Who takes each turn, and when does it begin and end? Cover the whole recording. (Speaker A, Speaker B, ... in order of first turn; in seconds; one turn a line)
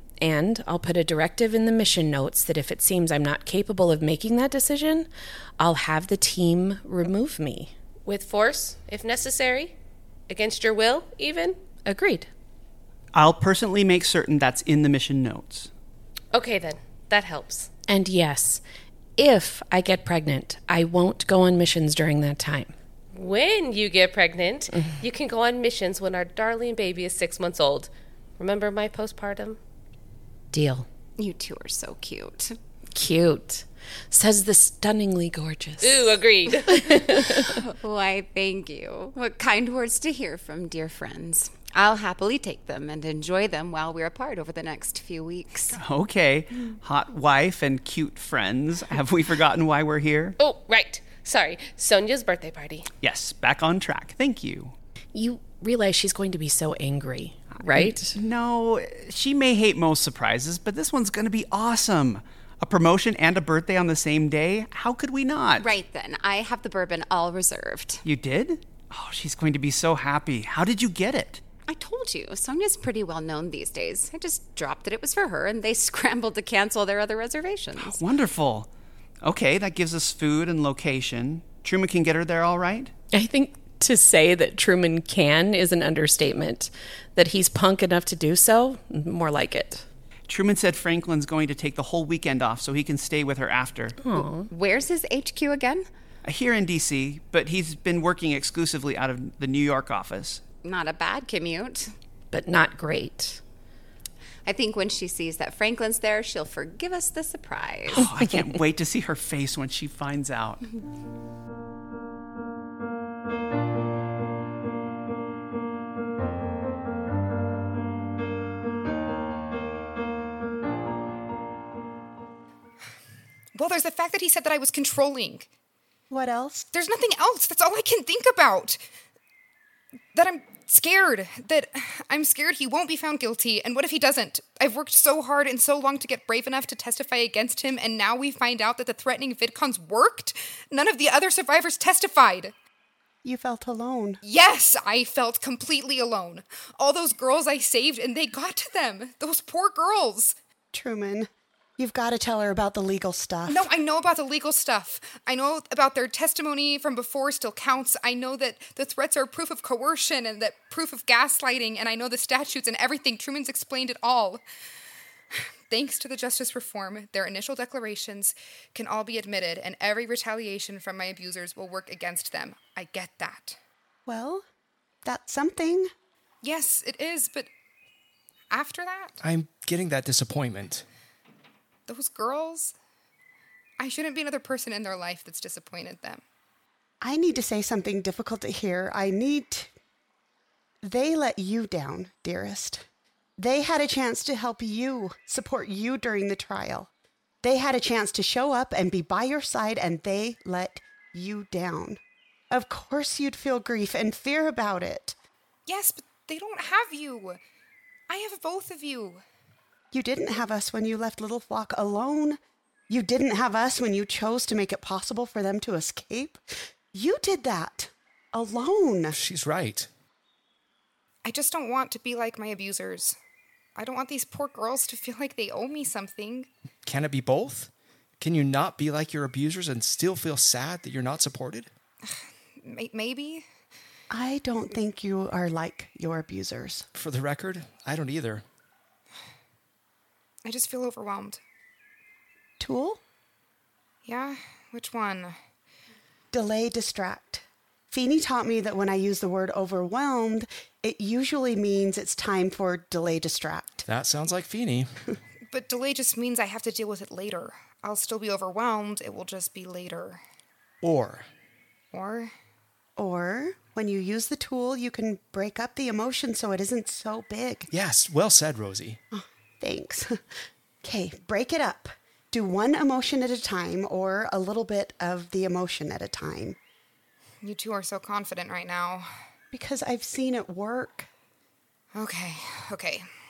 Speaker A: 0.2-7.7
Speaker B: 8.1-9.8
Speaker B: 10.3-11.6
Speaker A: 11.8-12.3
Speaker C: 13.1-15.7
Speaker B: 16.3-17.7
Speaker A: 17.9-18.6
Speaker A: 19.2-22.7
Speaker B: 23.1-29.6
Speaker A: 30.5-30.9
Speaker D: 31.2-32.6
Speaker A: 32.9-37.6
Speaker B: 35.8-37.4
Speaker D: 37.5-45.8
Speaker C: 45.7-50.4
Speaker B: 50.4-52.9
Speaker C: 53.0-54.7
Speaker A: 55.1-58.2
Speaker C: 57.7-65.7
Speaker D: 65.6-68.0
Speaker C: 68.0-71.4
Speaker D: 71.7-78.0
Speaker C: 77.8-78.7
Speaker C: 79.2-82.9
Speaker A: 83.1-89.9
Speaker C: 90.3-94.0
Speaker A: 94.0-94.5
Speaker D: 94.1-95.9
Speaker C: 96.2-100.4
Speaker D: 100.6-101.9
Speaker A: 102.3-103.4
Speaker D: 104.5-108.1
Speaker C: 107.9-110.6
Speaker E: 123.5-125.5
Speaker F: 126.1-126.7
Speaker E: 126.7-128.8
Speaker E: 130.1-142.5
Speaker F: 143.2-144.2
Speaker E: 144.2-150.4
Speaker F: 150.7-153.7
Speaker E: 153.5-164.4
Speaker E: 165.7-173.6
Speaker F: 174.1-174.4
Speaker F: 175.1-175.9
Speaker E: 176.4-177.5
Speaker E: 178.5-179.2
Speaker G: 179.2-180.9
Speaker E: 181.9-182.8
Speaker E: 183.8-186.2
Speaker F: 187.0-189.7
Speaker F: 190.8-192.8
Speaker F: 193.4-196.9
Speaker F: 197.4-202.0
Speaker F: 202.5-205.2
Speaker E: 205.7-207.4
Speaker E: 208.1-209.2
Speaker F: 209.9-216.4
Speaker F: 216.9-219.2
Speaker G: 219.1-219.9
Speaker E: 221.2-223.2
Speaker E: 223.8-226.5
Speaker G: 226.8-231.7
Speaker E: 232.1-233.5
Speaker F: 234.1-236.9
Speaker G: 236.9-238.4
Speaker E: 240.4-241.4
Speaker F: 242.6-243.0
Speaker E: 244.1-245.4
Speaker F: 246.3-253.8
Speaker G: 253.9-254.9
Speaker E: 255.5-260.2
Speaker G: 260.8-261.3
Speaker E: 261.9-262.3
Speaker F: 263.0-267.7
Speaker G: 267.7-269.0
Speaker F: 269.1-270.2
Speaker F: 270.8-276.6
Speaker E: 277.4-279.1
Speaker F: 279.5-281.1
Speaker E: 281.9-283.1